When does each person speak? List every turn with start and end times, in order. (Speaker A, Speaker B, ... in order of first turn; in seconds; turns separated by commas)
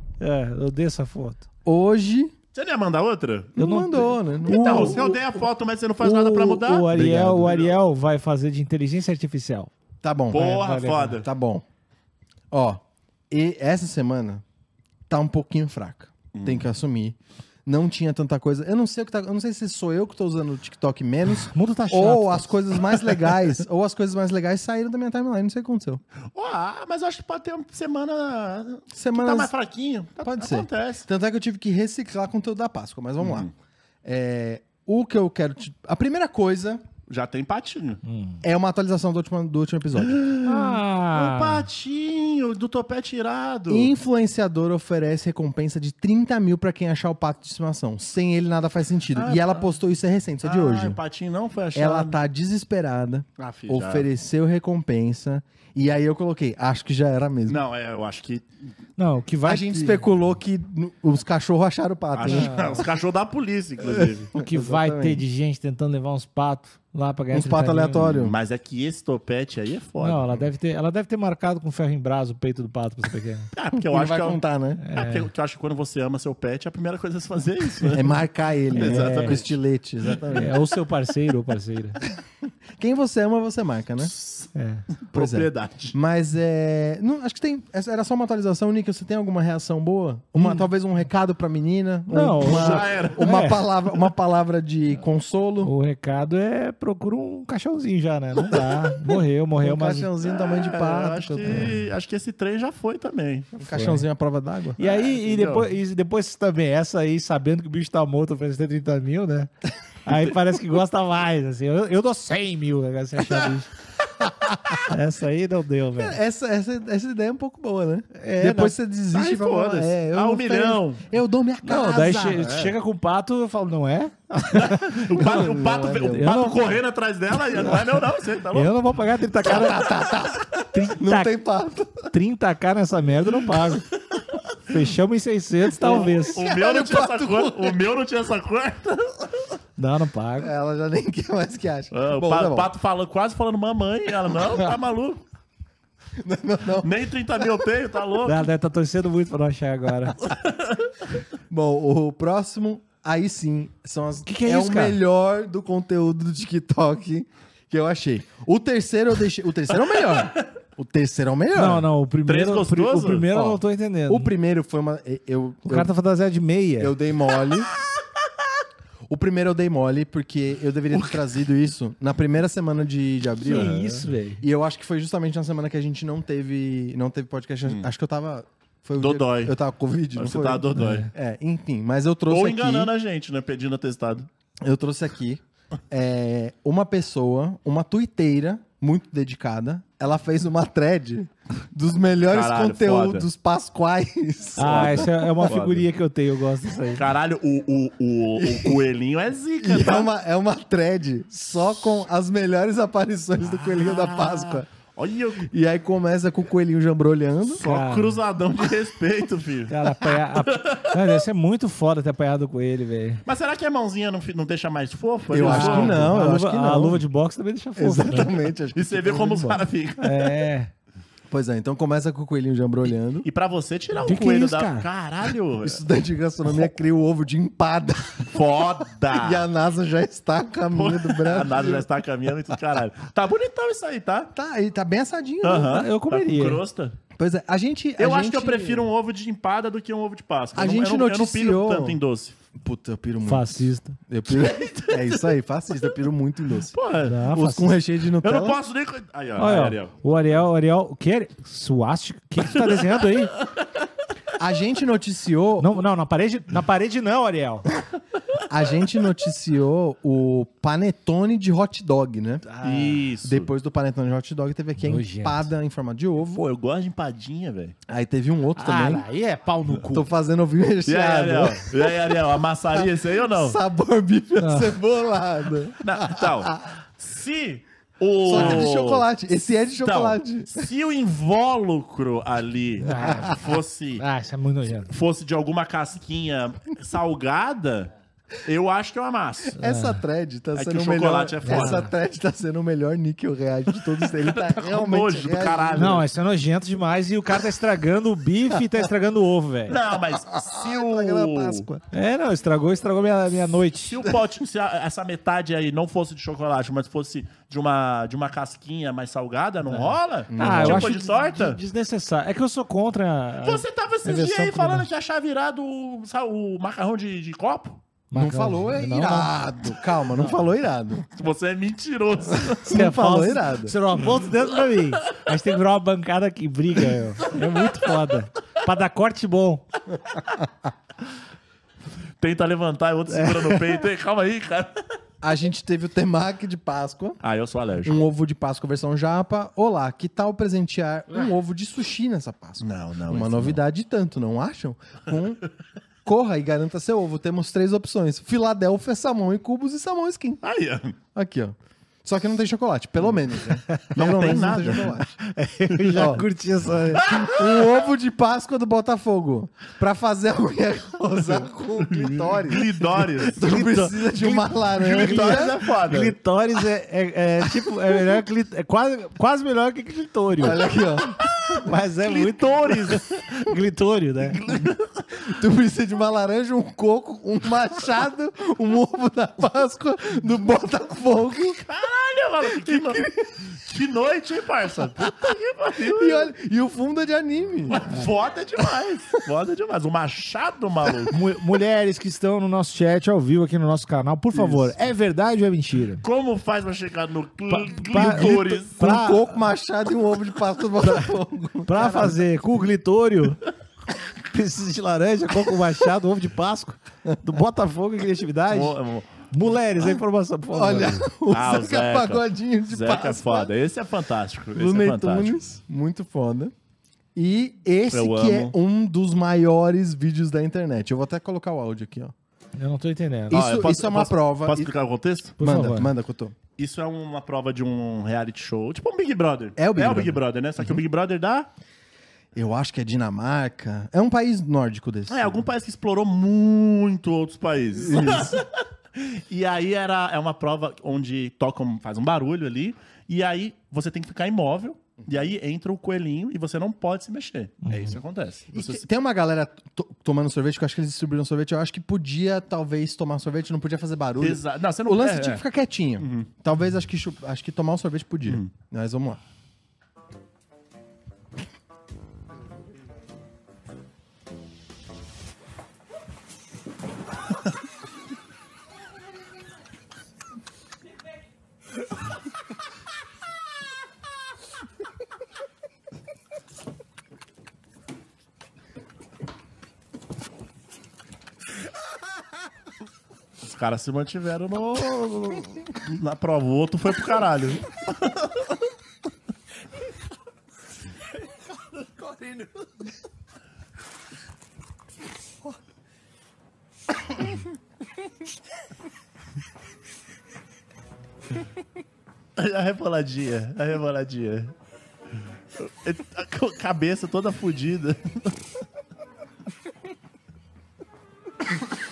Speaker A: 0.2-1.4, Speaker B: 1.6-2.3, Speaker C: 2.5-3.5, Speaker B: 3.5-5.0, Speaker A: 3.6-5.3, Speaker C: 4.5-7.8, Speaker A: 6.0-9.7, Speaker B: 10.0-10.5, Speaker C: 10.3-11.2, Speaker A: 10.3-11.2, Speaker B: 11.2-11.6, Speaker B: 12.5-14.4, Speaker B: 15.1-26.0, Speaker C: 16.3-16.6, Speaker A: 21.5-22.7, Speaker C: 26.3-31.1, Speaker B: 28.9-29.5, Speaker B: 30.2-33.5, Speaker C: 33.2-33.5, Speaker B: 34.0-36.9, Speaker C: 37.1-38.0, Speaker A: 38.0-38.4, Speaker B: 38.4-40.2, Speaker C: 40.2-43.9, Speaker A: 40.4-41.7, Speaker B: 43.7-51.0, Speaker C: 49.1-49.6, Speaker C: 50.4-52.2, Speaker B: 51.7-57.6, Speaker C: 53.4-54.1, Speaker C: 57.5-58.5, Speaker A: 59.0-60.0, Speaker B: 59.4-62.9, Speaker C: 62.1-64.3, Speaker A: 62.3-62.9, Speaker B: 63.8-65.2, Speaker A: 64.3-68.1, Speaker B: 67.3-68.4, Speaker C: 68.0-70.5, Speaker A: 70.0-73.5, Speaker C: 73.5-74.4, Speaker B: 73.7-74.8, Speaker A: 74.8-75.3, Speaker C: 74.9-78.1, Speaker B: 77.9-80.5, Speaker A: 78.7-79.4, Speaker C: 78.8-79.5, Speaker A: 80.3-82.0, Speaker B: 82.7-84.1, Speaker C: 84.0-85.9, Speaker A: 84.5-84.8, Speaker B: 85.1-95.7, Speaker A: 90.3-90.6, Speaker A: 92.1-93.6, Speaker C: 92.4-93.3, Speaker A: 95.6-100.1, Speaker B: 99.6-101.7, Speaker C: 100.2-103.5, Speaker A: 101.5-101.7, Speaker A: 103.6-104.0, Speaker B: 103.6-104.8, Speaker A: 104.8-109.5, Speaker C: 104.8-105.7, Speaker A: 110.0-113.7, Speaker A: 114.8-116.2, Speaker B: 116.0-122.8, Speaker A: 118.1-118.8, Speaker C: 119.1-121.0, Speaker A: 121.6-125.0, Speaker C: 124.5-128.7, Speaker B: 125.1-126.4, Speaker A: 126.1-126.6, Speaker A: 128.5-129.9, Speaker B: 129.4-132.1, Speaker A: 130.7-131.3, Speaker A: 132.1-133.8, Speaker A: 134.7-136.4, Speaker B: 135.7-137.8, Speaker C: 135.8-139.5, Speaker A: 139.8-140.5, Speaker B: 140.4-142.7, Speaker C: 141.9-145.2, Speaker B: 146.2-147.5, Speaker C: 146.8-148.4, Speaker A: 148.2-150.2, Speaker C: 150.2-150.9, Speaker B: 151.5-161.9, Speaker A: 154.2-155.0, Speaker A: 161.5-164.3, Speaker C: 162.2-163.3, Speaker B: 163.3-165.9, Speaker A: 165.7-166.9, Speaker B: 166.8-167.7, Speaker B: 169.1-173.8, Speaker C: 170.9-171.2, Speaker C: 173.4-174.0, Speaker A: 173.4-174.4, Speaker B: 174.4-182.9, Speaker C: 179.0-179.6, Speaker C: 180.1-181.1, Speaker A: 180.8-181.1, Speaker C: 182.3-184.3, Speaker B: 184.6-195.5, Speaker C: 192.3-193.3, Speaker C: 194.6-195.8, Speaker A: 194.6-197.0, Speaker C: 196.9-200.1, Speaker B: 198.4-198.8, Speaker B: 199.6-204.7, Speaker C: 203.4-205.5, Speaker B: 205.4-207.6, Speaker C: 207.5-211.0, Speaker A: 207.6-208.2, Speaker A: 209.7-213.2, Speaker C: 213.2-216.1, Speaker B: 215.3-217.0, Speaker A: 215.4-218.3, Speaker B: 217.8-219.6, Speaker C: 218.7-220.3, Speaker A: 220.0-220.7, Speaker B: 221.3-223.3, Speaker C: 223.2-225.8, Speaker A: 224.0-224.9, Speaker B: 225.6-231.9, Speaker C: 228.3-229.4, Speaker C: 230.7-234.3, Speaker B: 234.3-235.8, Speaker C: 235.4-237.0, Speaker A: 235.6-236.6, Speaker B: 237.1-238.9, Speaker C: 238.0-242.3, Speaker B: 240.5-242.0, Speaker B: 242.6-246.7, Speaker A: 243.2-244.0, Speaker C: 244.3-245.2, Speaker C: 246.7-247.2, Speaker A: 247.0-247.7, Speaker B: 247.3-248.6, Speaker C: 248.2-249.9, Speaker A: 249.4-253.3, Speaker C: 252.6-253.6, Speaker B: 254.4-255.7, Speaker A: 255.6-257.7, Speaker B: 258.5-262.5, Speaker A: 262.5-262.9, Speaker C: 262.6-263.5, Speaker B: 263.2-266.4, Speaker A: 264.8-265.5, Speaker C: 266.3-267.8, Speaker B: 267.9-269.1, Speaker A: 268.6-270.1, Speaker B: 269.9-272.2, Speaker C: 270.8-273.6, Speaker B: 272.7-276.7, Speaker A: 274.4-274.8, Speaker C: 275.8-279.1, Speaker B: 278.2-280.6, Speaker A: 278.3-278.6, Speaker C: 279.8-284.0, Speaker A: 282.8-284.9, Speaker B: 283.1-283.4, Speaker C: 284.8-287.9, Speaker C: 288.4-289.6, Speaker A: 289.6-290.0, Speaker B: 289.6-296.0, Speaker C: 290.5-291.9, Speaker A: 291.4-291.9, Speaker C: 294.0-296.0, Speaker A: 295.8-299.8, Speaker C: 299.7-301.7, Speaker B: 300.1-301.8, Speaker A: 301.9-304.1, Speaker C: 303.9-311.6, Speaker A: 309.7-314.9, Speaker B: 310.3-311.0, Speaker C: 313.4-317.8, Speaker A: 318.1-319.3, Speaker B: 318.1-321.1, Speaker C: 321.1-322.7, Speaker B: 322.3-323.8, Speaker A: 322.7-329.6, Speaker C: 332.2-334.8, Speaker A: 333.1-333.8, Speaker B: 335.2-337.2, Speaker C: 337.2-338.0, Speaker B: 337.8-345.4, Speaker C: 342.6-343.6, Speaker B: 346.0-350.4, Speaker C: 350.4-351.0, Speaker B: 351.1-355.1, Speaker C: 353.9-355.0, Speaker A: 355.0-357.1, Speaker C: 355.7-356.0, Speaker B: 355.9-356.2, Speaker B: 357.0-365.6, Speaker C: 357.0-357.6, Speaker C: 361.9-363.5, Speaker A: 363.4-370.6, Speaker C: 364.8-366.2, Speaker B: 370.4-371.3, Speaker C: 371.2-373.1, Speaker A: 371.6-374.4, Speaker C: 374.2-375.1, Speaker B: 375.1-381.6, Speaker C: 381.7-386.3, Speaker B: 382.5-383.3, Speaker B: 385.0-387.9, Speaker C: 387.7-391.1, Speaker A: 391.1-396.0, Speaker B: 394.4-394.6, Speaker C: 396.0-398.8, Speaker A: 397.5-399.3, Speaker B: 397.9-402.2, Speaker A: 401.6-403.4, Speaker A: 404.3-408.8, Speaker C: 408.5-409.1, Speaker A: 409.3-411.1, Speaker B: 410.5-413.5, Speaker C: 411.3-415.4, Speaker B: 414.5-416.5, Speaker B: 417.1-422.1, Speaker C: 417.9-418.5, Speaker A: 422.6-423.4, Speaker B: 423.3-424.7, Speaker C: 423.3-425.4, Speaker A: 425.4-425.9, Speaker B: 425.4-426.4, Speaker C: 426.6-431.5, Speaker B: 429.6-430.2, Speaker B: 432.3-435.4, Speaker C: 435.1-448.8, Speaker B: 437.8-438.4, Speaker A: 447.6-448.0, Speaker B: 448.5-459.2, Speaker C: 454.2-455.4, Speaker C: 456.0-456.3, Speaker C: 483.4-488.3, Speaker C: 502.4-504.5, Speaker C: 505.6-508.3